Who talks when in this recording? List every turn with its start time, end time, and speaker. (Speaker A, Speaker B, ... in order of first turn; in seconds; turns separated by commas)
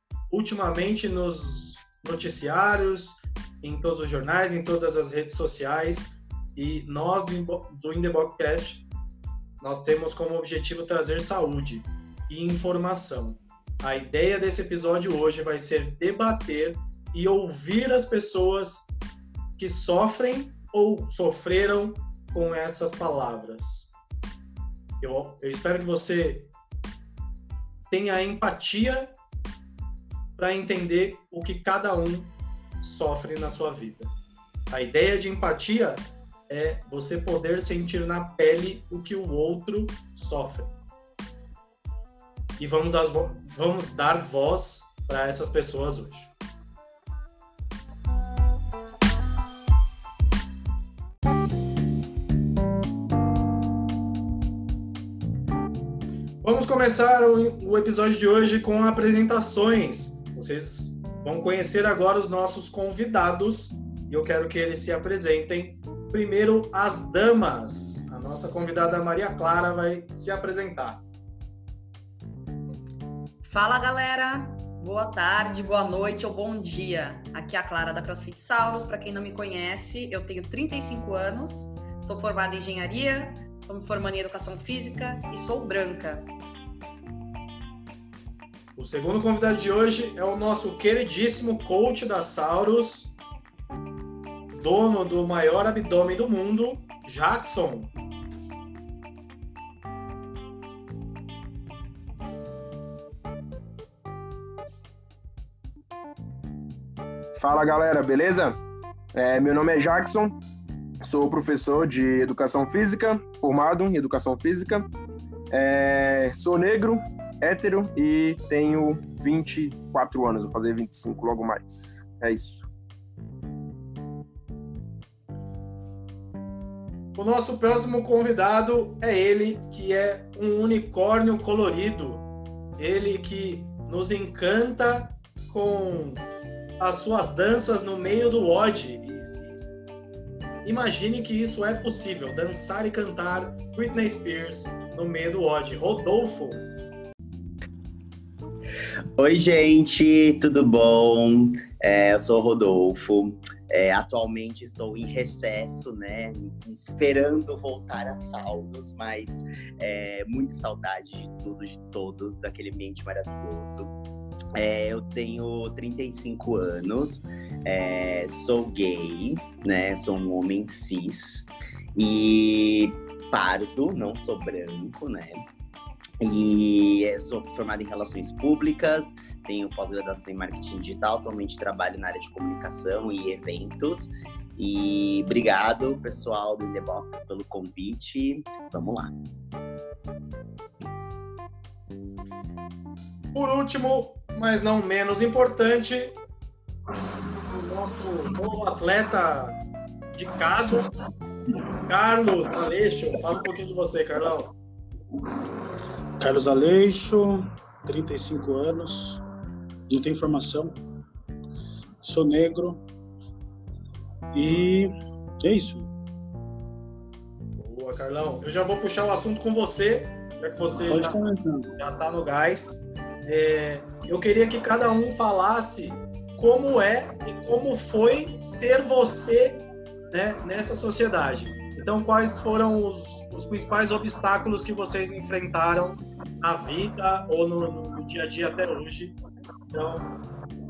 Speaker A: 0.3-8.8, Speaker A: 9.6-18.9, Speaker A: 19.6-23.9, Speaker A: 25.0-26.5, Speaker A: 27.9-29.1, Speaker A: 30.4-34.1, Speaker A: 34.7-40.7, Speaker A: 42.6-46.3, Speaker A: 56.4-71.0, Speaker B: 73.4-86.3, Speaker A: 88.8-93.1, Speaker A: 94.5-97.9, Speaker C: 107.3-108.6, Speaker C: 109.1-110.3, Speaker C: 111.0-114.9, Speaker C: 115.5-122.7, Speaker A: 127.2-136.2, Speaker A: 136.8-139.7, Speaker A: 140.6-146.7, Speaker D: 149.2-163.9, Speaker D: 164.6-175.4, Speaker D: 176.2-189.1, Speaker A: 193.3-196.1, Speaker A: 197.4-199.6, Speaker A: 200.1-200.9, Speaker A: 201.8-204.5, Speaker E: 206.2-209.2, Speaker E: 209.9-210.8, Speaker E: 212.0-212.8, Speaker E: 214.3-215.9, Speaker A: 217.6-221.2, Speaker E: 220.8-221.7, Speaker A: 221.8-239.2, Speaker A: 239.7-240.1